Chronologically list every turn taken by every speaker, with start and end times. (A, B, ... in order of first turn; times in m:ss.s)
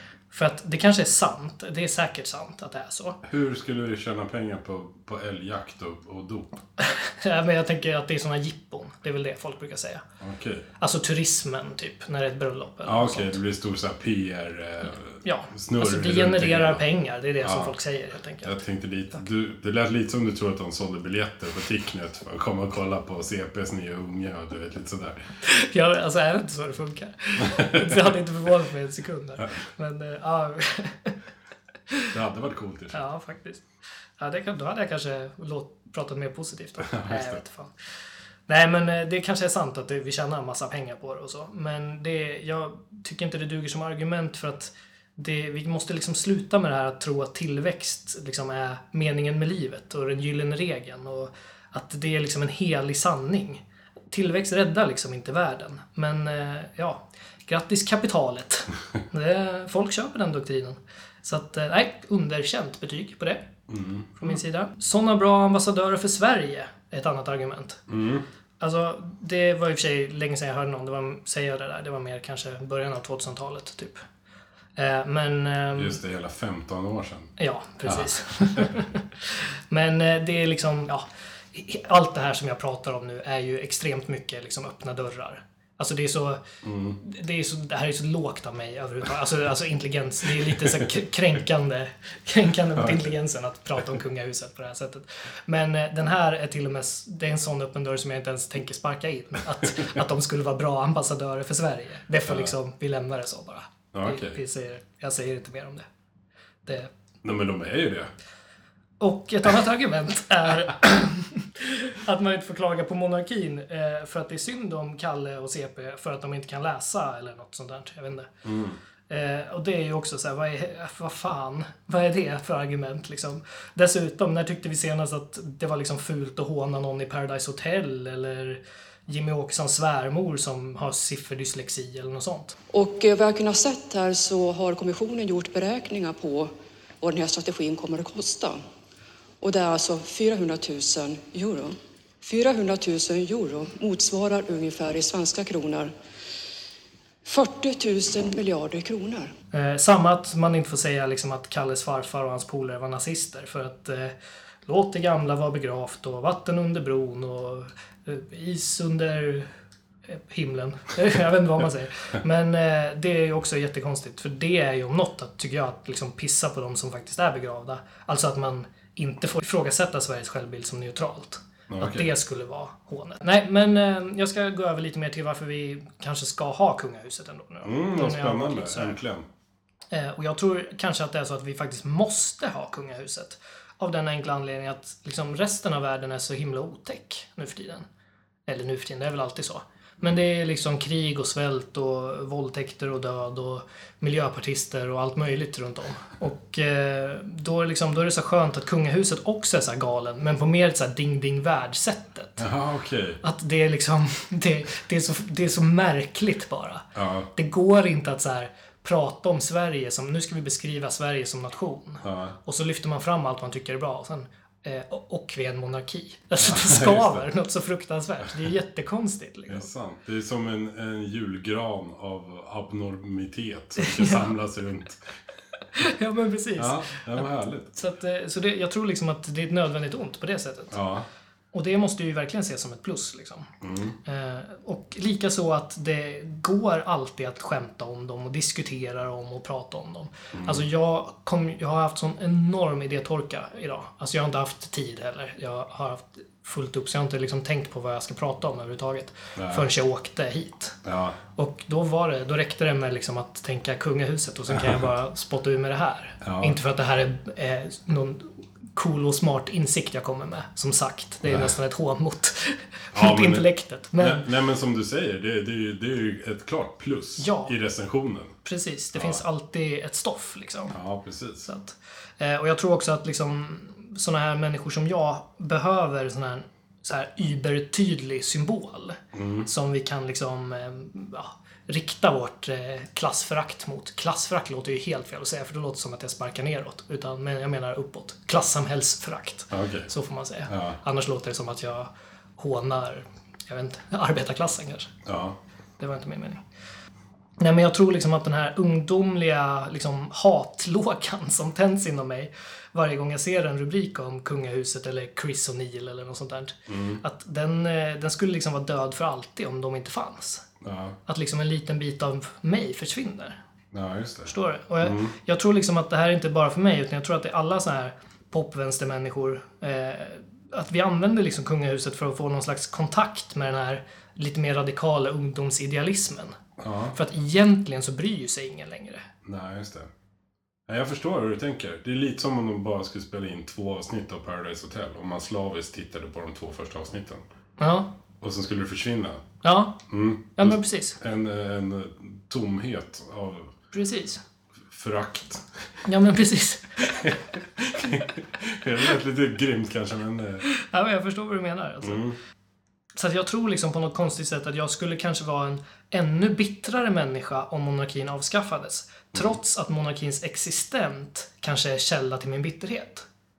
0:00.3-0:03.2 A
0:03.2-0:06.6 B
0:06.8-0:10.0 A
0:10.2-0:10.7 B
0:10.8-0:13.4 A
0:12.8-0:16.8 B
0:15.2-0:18.6 A
0:17.4-0:17.8 B
0:18.4-0:25.2 B
0:25.4-0:31.2 A
0:27.4-0:28.1 B
0:32.1-0:33.0 B
0:32.9-0:33.6 A
0:34.2-0:37.7 A
0:36.8-0:37.4 B
0:38.5-1:03.5 A
1:03.7-1:04.2 B
1:04.2-1:07.8 A
1:07.9-1:08.2 B
1:08.6-1:14.0 A
1:14.8-1:16.0 A
1:15.8-1:17.3 B
1:17.4-1:26.4 A
1:17.8-1:18.7 B
1:26.6-1:27.0 B
1:27.0-1:45.9 A
1:42.3-1:42.5 B
1:43.9-1:44.4 B
1:46.6-1:46.9 A
1:47.2-1:48.1 B
1:49.0-1:58.3 A
1:58.4-1:58.8 B
1:59.1-2:12.6 A
2:12.7-2:18.6 C
2:19.4-2:25.9 C
2:27.2-2:29.3 C
2:29.5-2:34.2 A
2:34.7-2:39.5 A
2:40.1-2:59.0 A
2:51.7-2:52.1 B
2:57.6-2:59.3 B
2:59.9-3:07.9 A
3:08.5-3:22.5 A
3:22.4-3:23.2 B
3:23.2-3:39.7 A
3:27.0-3:27.3 B
3:32.0-3:32.4 B
3:36.4-3:37.2 B
3:39.5-3:45.1 B
3:43.8-3:44.3 A
3:45.8-3:50.8 A
3:46.6-3:47.8 B
3:50.7-3:51.1 B
3:51.5-3:53.5 A
3:53.6-3:54.0 B
3:54.0-4:10.8 A
4:00.4-4:00.6 B
4:09.4-4:09.7 B
4:10.8-4:11.2 B
4:11.4-4:24.3 A
4:14.5-4:14.8 B
4:16.2-4:16.6 B
4:22.9-4:28.4 B
4:27.2-4:27.6 A
4:28.4-4:30.8 A
4:28.9-4:29.2 B
4:30.7-4:31.5 B
4:31.4-4:54.9 A
4:39.1-4:39.5 B
4:49.5-4:49.9 B
4:50.5-4:50.8 B
4:55.1-4:55.4 B
4:55.8-4:56.4 A
4:57.4-5:10.4 A
5:06.7-5:07.0 B
5:10.6-5:11.0 B
5:11.1-5:13.4 A
5:13.7-5:15.2 B
5:14.3-5:26.4 A
5:26.6-5:27.0 B
5:26.9-5:29.1 A
5:29.2-5:29.9 B
5:30.7-5:37.2 B
5:37.6-5:37.9 A
5:38.2-5:39.2 B
5:39.4-5:39.8 A
5:39.9-5:43.5 B
5:40.4-5:41.0 A
5:43.7-5:44.2 A
5:44.7-5:45.6 B
5:45.9-5:47.1 A
5:46.9-5:50.5 B
5:50.5-5:52.0 A
5:51.8-5:52.2 B
5:53.0-6:03.1 A